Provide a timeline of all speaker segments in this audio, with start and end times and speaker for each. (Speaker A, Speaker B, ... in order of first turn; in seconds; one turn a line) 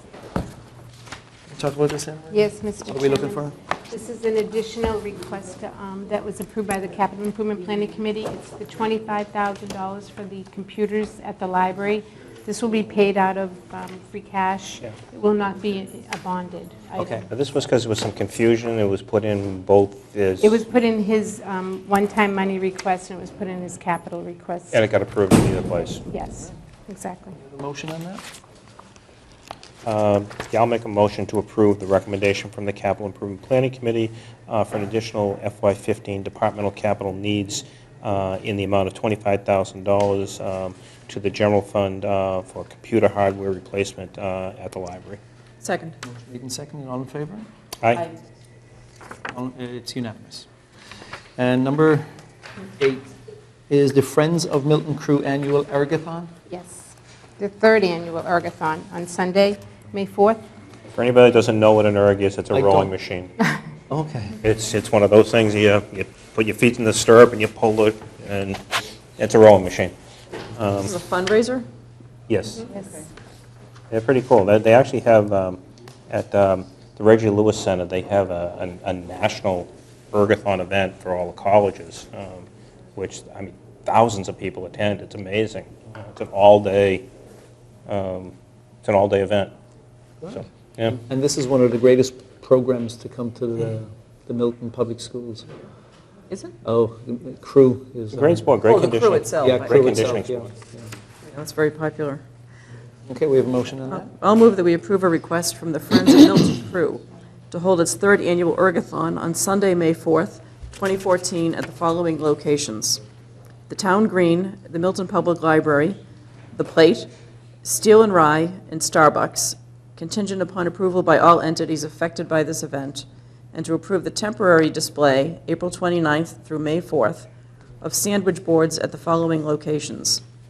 Speaker A: 1.5-3.5
Speaker B: 2.3-17.2
Speaker A: 17.0-17.2
Speaker C: 17.0-20.6
Speaker B: 20.4-24.8
Speaker C: 24.7-26.0
Speaker B: 26.1-27.4
Speaker A: 27.4-28.2
Speaker C: 29.9-45.2
Speaker D: 45.6-46.0
Speaker A: 46.0-47.5
Speaker A: 49.3-50.5
Speaker A: 51.4-52.1
Speaker A: 52.8-53.1
Speaker A: 53.7-56.3
Speaker B: 56.5-60.4
Speaker C: 61.0-63.4
Speaker A: 62.5-62.9
Speaker A: 63.9-64.4
Speaker C: 64.4-69.9
Speaker C: 70.5-70.9
Speaker D: 70.8-71.7
Speaker C: 72.3-72.7
Speaker C: 73.9-87.1
Speaker C: 87.9-89.5
Speaker A: 90.2-95.5
Speaker C: 90.3-91.0
Speaker D: 96.3-96.6
Speaker A: 96.7-98.5
Speaker C: 98.1-100.5
Speaker D: 98.7-99.9
Speaker A: 99.4-100.9
Speaker D: 101.2-102.2
Speaker A: 103.1-104.1
Speaker D: 103.9-113.0
Speaker D: 113.7-116.0
Speaker D: 116.5-117.1
Speaker D: 117.6-127.3
Speaker D: 127.8-130.2